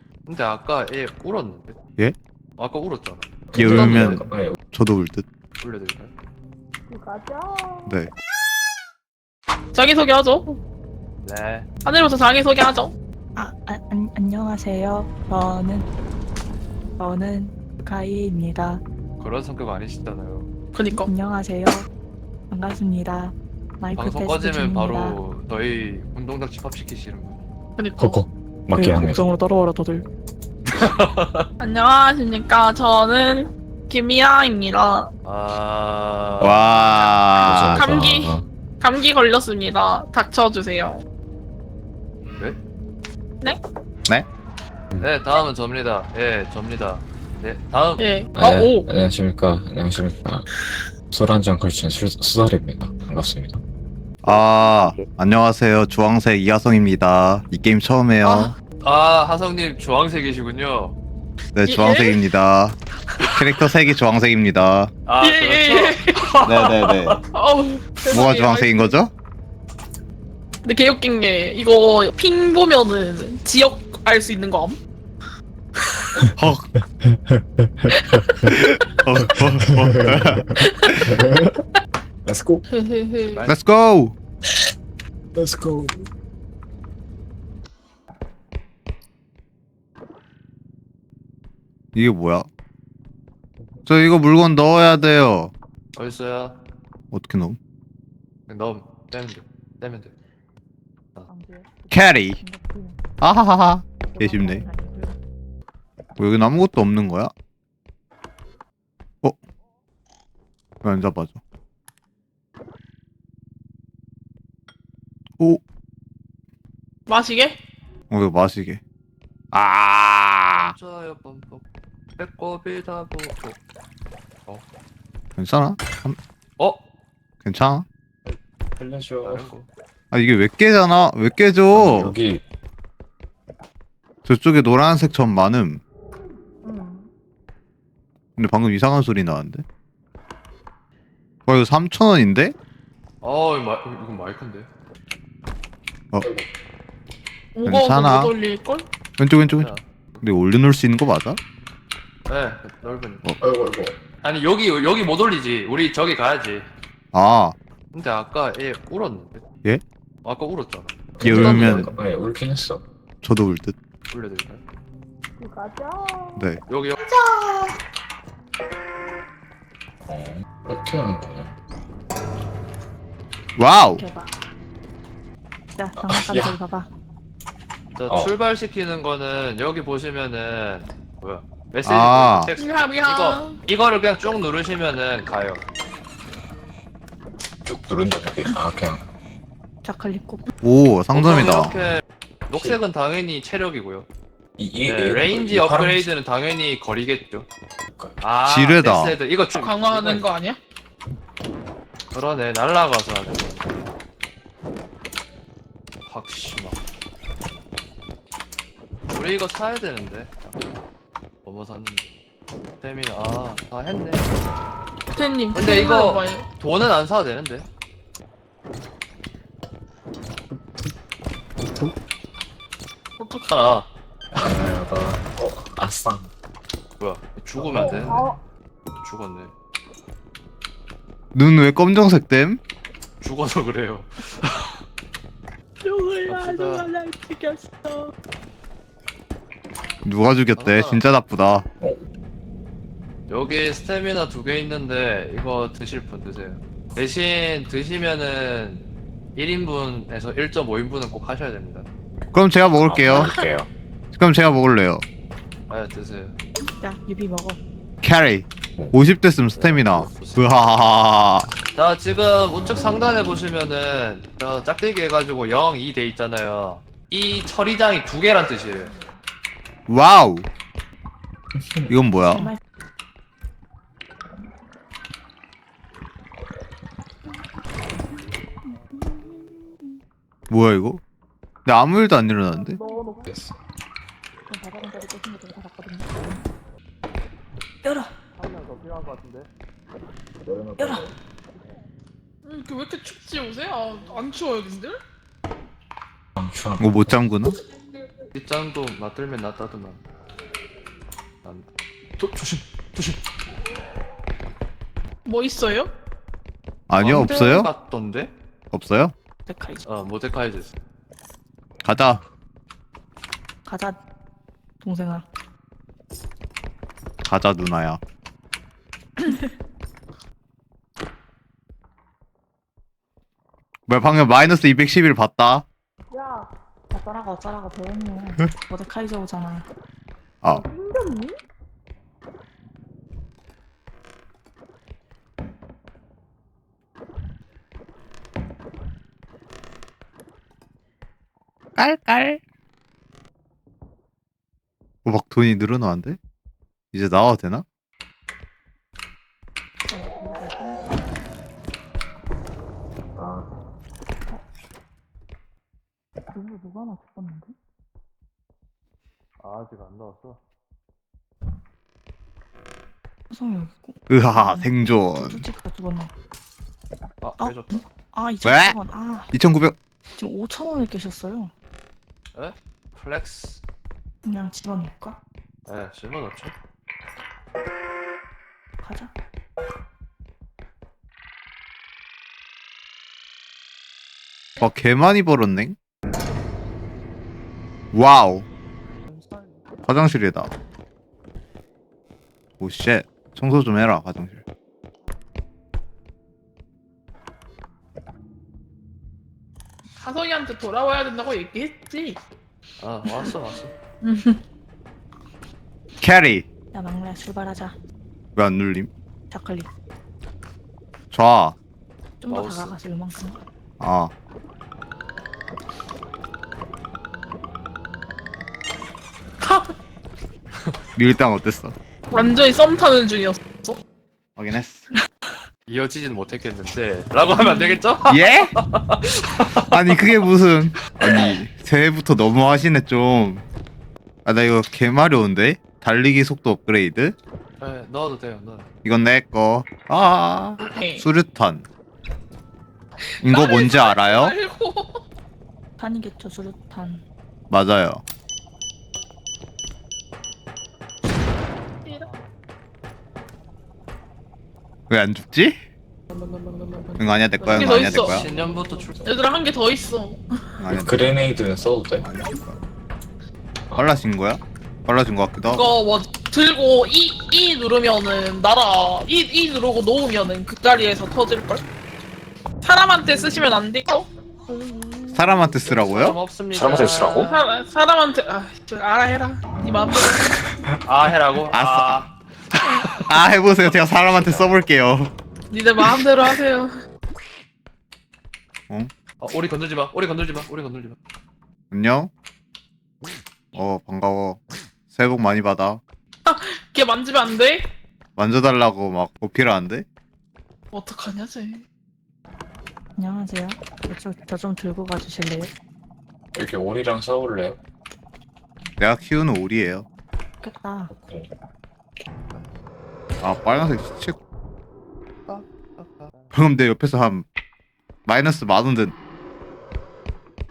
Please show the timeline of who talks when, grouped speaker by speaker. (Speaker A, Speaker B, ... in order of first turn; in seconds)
Speaker A: 0.2-1.8, 2.6-4.2, 5.6-6.1, 11.2-11.7, 19.2-20.5, 23.9-27.4, 30.7-31.5, 35.2-37.1, 45.0-48.1, 58.8-61.0, 65.1-67.2, 83.3-83.6, 96.0-96.6, 98.5-100.1, 120.5-121.6, 122.2-123.6, 129.2-129.7, 143.2-144.7, 149.6-150.2, 152.3-153.2, 154.2-156.7, 157.9-159.4, 160.2-161.9, 164.1-164.6, 166.7-167.0, 177.9-185.6, 191.1-194.1, 194.8-197.5, 198.2-200.3, 202.1-203.8, 206.1-206.8, 209.1-210.6, 211.4-212.1, 212.8-214.3, 215.5-217.7, 223.5-223.9, 227.0-228.3, 229.0-229.5, 233.2-234.8, 236.3-236.9, 240.6-241.0, 243.3-248.8, 249.3-251.9, 255.7-256.4, 259.5-260.6, 261.7-268.9, 288.4-289.5, 298.4-300.0, 302.2-303.2, 307.0-308.3, 309.9-310.7, 359.4-360.4, 367.2-367.8, 372.3-373.6, 375.7-376.6, 389.1-389.6, 402.8-403.7, 412.3-412.7, 425.7-430.0, 437.6-438.7, 457.5-459.1, 475.6-477.3, 480.9-483.0, 489.2-491.0, 515.3-516.3
Speaker B: 3.5-4.6, 28.0-29.2, 37.4-38.5, 48.3-50.5, 51.1-53.6, 77.0-78.0, 79.7-81.6, 82.2-82.6, 85.3-86.1, 128.2-129.5, 131.7-132.4, 146.2-146.5, 153.4-154.0, 161.2-162.8, 170.0-171.5, 176.0-176.6, 178.1-178.3, 187.6-189.1, 192.5-192.8, 194.6-196.1, 221.6-221.9, 224.3-226.3, 227.6-228.1, 252.8-253.7, 271.6-271.9, 283.3-283.6, 290.4-291.1, 296.4-296.8, 353.2-353.5, 460.7-462.1, 476.5-477.3, 484.2-484.5, 506.4-507.6, 510.9-511.3
Speaker C: 3.6-5.3, 7.9-8.1, 36.4-37.9, 54.2-58.5, 61.5-62.8, 63.4-64.9, 66.4-67.2, 68.1-69.1, 76.4-76.7, 78.5-81.1, 83.5-84.2, 92.0-92.5, 93.9-95.5, 97.1-97.6, 101.9-102.4, 103.2-104.7, 106.2-107.3, 110.8-111.4, 118.1-118.8, 119.5-120.7, 125.4-126.2, 127.4-127.9, 130.1-132.1, 134.2-135.8, 138.4-139.6, 141.5-142.5, 147.6-148.3, 149.2-149.7, 150.2-151.4, 157.1-157.6, 161.2-161.9, 163.2-163.7, 173.6-174.0, 181.8-182.5, 190.6-191.8, 198.4-199.2, 231.3-232.6, 240.0-241.6, 252.3-253.3, 254.1-255.0, 258.0-261.5, 269.9-270.5, 271.9-272.5, 280.5-281.0, 281.6-282.8, 296.8-297.6, 306.9-307.7, 308.7-309.1, 311.8-312.2, 317.2-318.0, 323.9-325.6, 341.8-342.4, 345.1-346.2, 346.9-347.6, 364.1-365.5, 368.4-368.8, 369.3-369.8, 384.6-385.8, 387.9-388.5, 389.9-390.5, 392.6-394.4, 406.0-406.5, 408.4-408.9, 411.1-411.6, 413.8-414.1, 421.0-421.8, 424.4-424.9, 428.1-428.5, 429.7-433.4, 434.2-437.1, 438.8-441.7, 443.2-444.4, 447.5-448.0, 454.9-455.6, 457.0-458.3, 460.6-461.1, 462.0-462.6, 463.7-465.7, 475.1-476.2, 481.5-482.1, 483.1-485.1, 491.7-492.1, 493.6-495.8, 498.2-499.9, 508.8-509.9, 513.2-514.1, 516.3-517.2, 518.1-518.9
Speaker D: 9.7-10.6, 11.8-12.9, 20.7-21.1, 27.8-28.2, 31.6-35.1, 37.7-41.0, 48.0-48.9, 58.2-58.5, 61.6-62.2, 65.2-66.3, 67.3-69.0, 70.6-74.8, 78.2-78.5, 80.6-81.0, 82.7-83.5, 117.1-117.6, 147.5-148.8, 165.4-165.9, 167.0-167.7, 182.6-183.6, 199.6-200.6, 215.1-216.4, 223.2-223.5, 227.7-228.3, 235.8-238.1, 282.5-283.2, 292.4-295.0, 305.2-305.9, 330.5-331.3, 400.0-402.2, 403.1-403.3, 404.0-404.4, 419.4-419.7, 422.1-423.8, 427.4-427.8, 440.6-441.1, 443.1-445.0, 456.1-458.2, 459.0-460.2, 465.5-471.6, 472.6-474.1, 477.2-480.4, 485.5-486.7, 496.2-497.7, 500.7-501.6
Speaker E: 13.4-15.9, 17.0-18.8, 21.1-21.9, 22.5-25.2, 28.8-30.1, 101.3-103.0, 104.0-105.2, 173.9-174.3, 175.7-176.9, 189.8-190.5, 253.1-253.4, 256.8-257.6, 272.3-272.6, 284.5-286.4, 287.8-288.1, 290.8-291.1, 309.5-309.9, 313.6-314.0, 314.8-315.2, 319.2-319.6, 326.9-329.7, 349.9-351.0, 356.3-357.6, 363.3-366.1, 367.4-369.3, 370.1-371.5, 374.2-375.2, 378.8-379.1, 406.7-407.8, 409.3-409.7, 412.2-413.4, 445.8-447.0, 503.0-505.5, 510.4-510.9